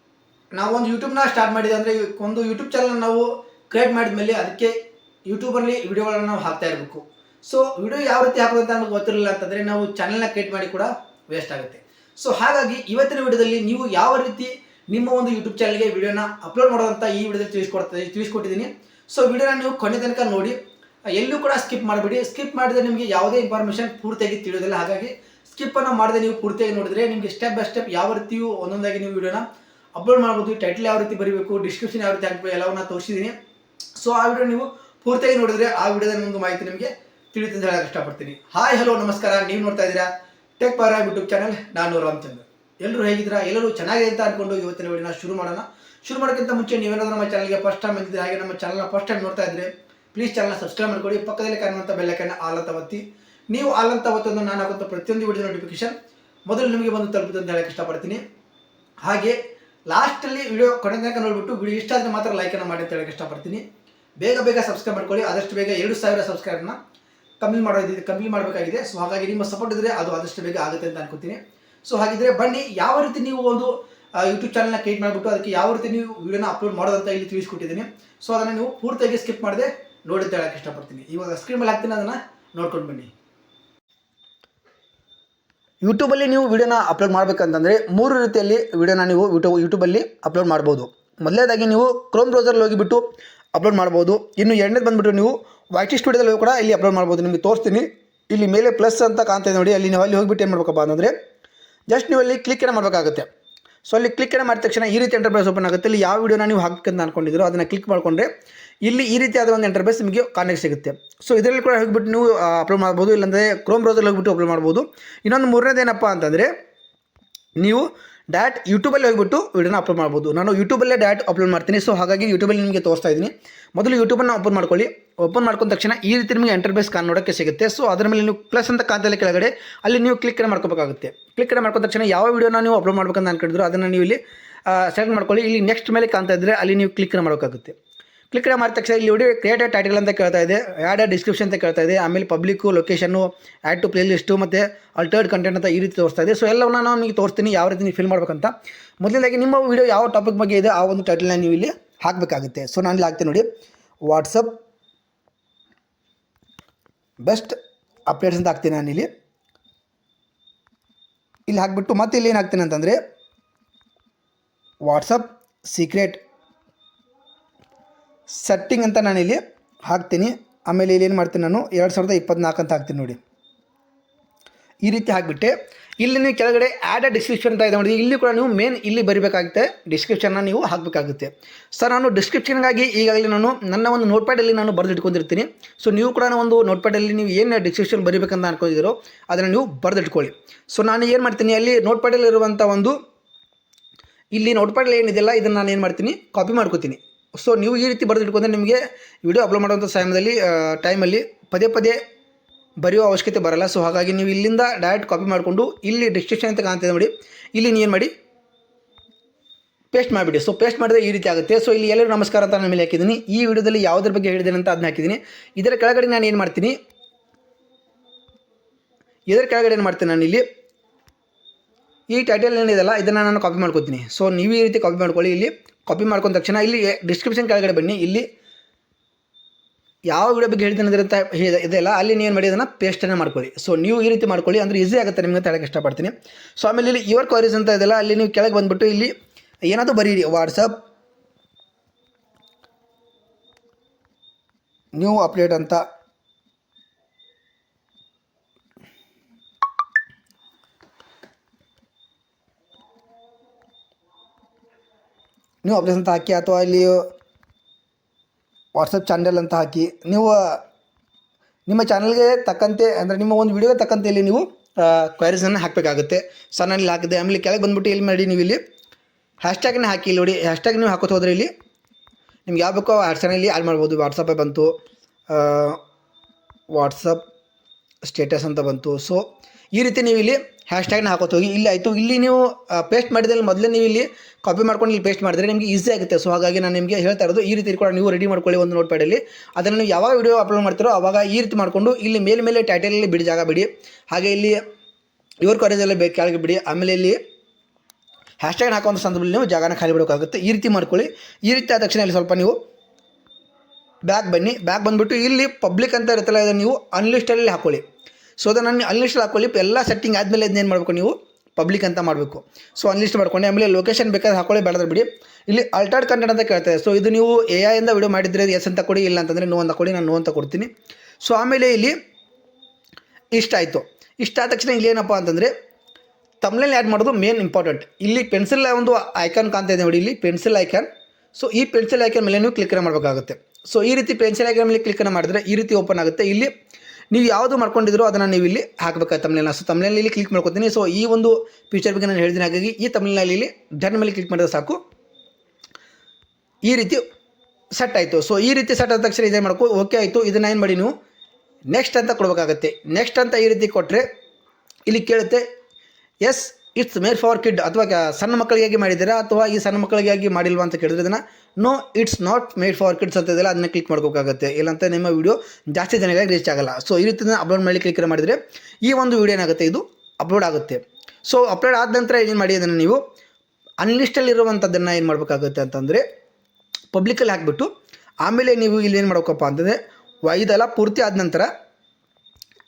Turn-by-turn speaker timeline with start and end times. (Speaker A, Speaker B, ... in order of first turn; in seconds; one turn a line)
Speaker A: 0.5-4.8
Speaker A: 5.3-20.6
Speaker A: 21.1-29.4
Speaker A: 29.9-33.4
Speaker A: 34.0-55.9
Speaker A: 56.5-58.2
Speaker A: 59.0-59.4
Speaker A: 59.9-63.6
Speaker A: 64.2-66.8
Speaker A: 67.4-83.1
Speaker A: 85.8-101.1
Speaker A: 101.9-103.3
Speaker A: 103.8-108.3
Speaker A: 108.8-116.5
Speaker A: 117.6-137.7
Speaker A: 138.3-153.5
Speaker A: 154.1-154.6
Speaker A: 157.2-157.6
Speaker A: 158.1-159.1
Speaker A: 161.5-163.0
Speaker A: 164.8-166.2
Speaker A: 168.3-173.2
Speaker A: 174.8-193.0
Speaker A: 194.3-202.0
Speaker A: 202.8-208.1
Speaker A: 209.9-216.7
Speaker A: 219.3-220.4
Speaker A: 222.1-228.2
Speaker A: 230.1-239.1
Speaker A: 239.7-240.8
Speaker A: 244.9-245.8
Speaker A: 255.6-257.0
Speaker A: 258.7-260.6
Speaker A: 261.7-268.6
Speaker A: 269.4-271.5
Speaker A: 272.5-274.7
Speaker A: 275.3-275.8
Speaker A: 276.7-277.2
Speaker A: 278.0-279.2
Speaker A: 279.7-294.6
Speaker A: 295.4-297.2
Speaker A: 298.4-302.6
Speaker A: 304.1-307.8
Speaker A: 308.4-320.7
Speaker A: 321.2-321.9
Speaker A: 323.3-325.5
Speaker A: 326.4-336.5
Speaker A: 337.1-344.8
Speaker A: 346.6-347.0
Speaker A: 347.8-350.9
Speaker A: 351.7-354.0
Speaker A: 354.9-355.4
Speaker A: 356.2-373.0
Speaker A: 373.8-376.0
Speaker A: 376.9-377.7
Speaker A: 378.2-381.5